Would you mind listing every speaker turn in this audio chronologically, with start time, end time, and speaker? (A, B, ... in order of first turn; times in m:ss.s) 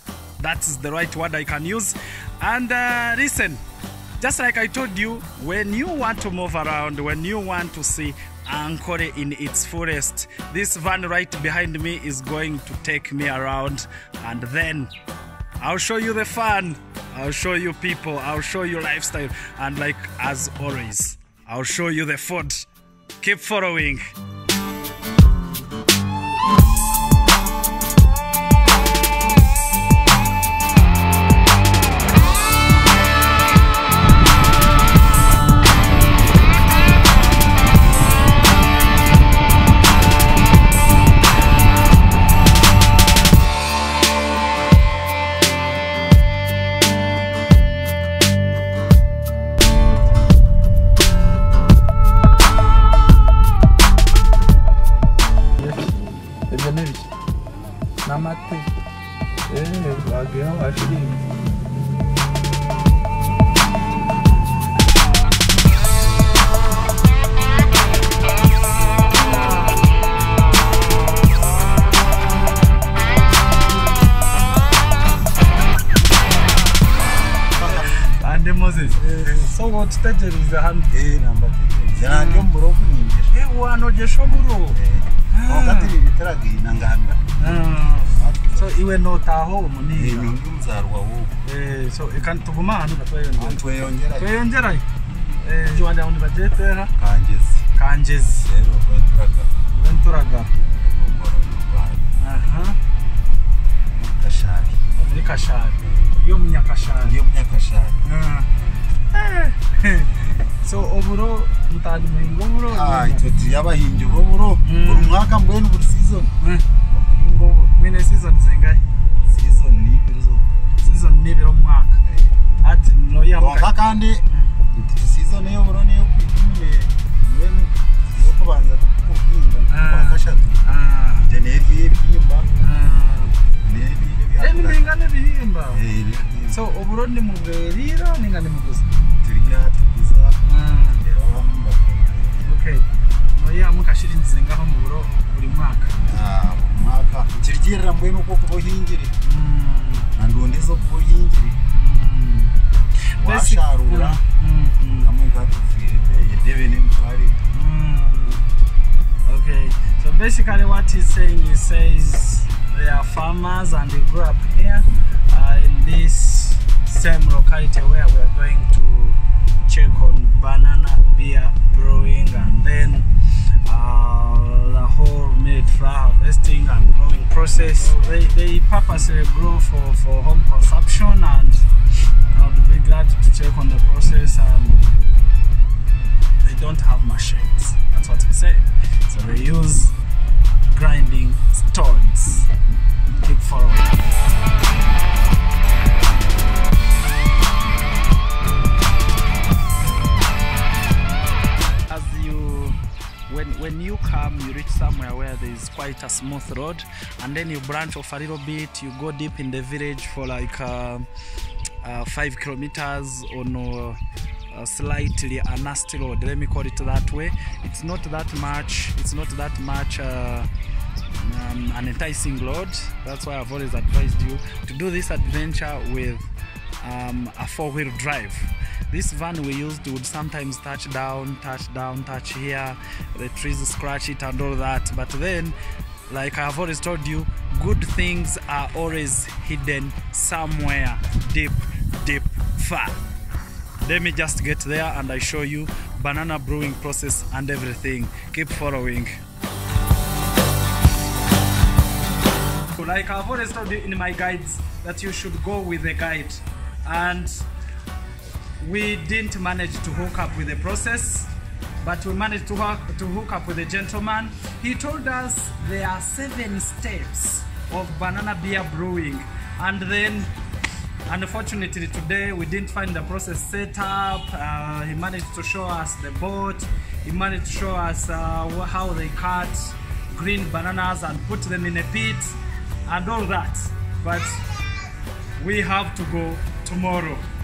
0:00.4-0:03.6 A
0:04.2-0:14.9 A
0:15.6-0:22.6 A
0:23.2-0:24.1 A
0:55.6-0:55.9 A
0:56.5-0:57.0 B
0:56.5-0:57.0 A
0:58.0-0:58.7 B
0:58.1-0:58.6 A
0:59.5-1:01.2 B
1:17.6-1:17.9 C
1:17.6-1:20.9 A
1:20.9-1:23.4 C
1:22.0-1:22.5 A
1:23.3-1:24.8 A
1:24.7-1:27.3 C
1:25.3-1:26.0 A
1:27.4-1:30.3 A
1:28.1-1:28.7 C
1:29.9-1:31.4 C
1:31.4-1:33.6 A
1:33.3-1:34.3 C
1:34.2-1:34.8 A
1:35.4-1:36.9 A
1:37.0-1:37.7 C
1:37.7-1:38.5 A
1:38.4-1:39.5 C
1:39.7-1:40.5 A
1:40.6-1:42.0 C
1:42.2-1:42.8 A
1:43.9-1:44.8 C
1:44.9-1:47.2 A
1:47.0-1:48.0 C
1:48.0-1:48.5 A
1:49.1-1:53.2 A
1:52.7-1:56.3 C
1:54.6-1:55.1 A
1:56.4-1:56.7 A
1:56.9-1:57.7 C
1:57.7-1:58.8 A
1:59.3-2:00.5 C
2:00.8-2:02.0 A
2:02.0-2:02.3 C
2:02.6-2:03.7 A
2:03.4-2:10.6 C
2:04.3-2:04.6 A
2:09.7-2:11.3 A
2:11.2-2:12.5 C
2:12.6-2:13.4 A
2:13.6-2:14.8 C
2:14.4-2:15.8 A
2:15.7-2:16.6 C
2:16.5-2:18.8 A
2:19.2-2:20.4 C
2:20.4-2:21.0 A
2:21.0-2:22.4 C
2:22.4-2:26.0 A
2:26.0-2:29.1 C
2:29.2-2:30.1 A
2:30.1-2:31.6 C
2:31.7-2:32.5 A
2:33.1-2:35.1 A
2:33.2-2:34.2 C
2:35.0-2:37.4 C
2:37.5-2:38.4 A
2:39.2-2:53.1 A
2:53.6-3:01.7 A
3:02.3-3:04.8 A
3:06.4-3:09.9 A
3:10.7-3:12.5 A
3:13.2-3:14.0 A
3:21.8-3:31.1 A
3:31.8-3:40.5 A
3:41.1-3:46.3 A
3:46.8-3:55.6 A
3:56.1-4:03.0 A
4:03.8-4:09.2 A
4:12.7-4:17.3 A
4:18.6-4:30.3 A
4:31.1-4:44.4 A
4:45.4-4:47.2 A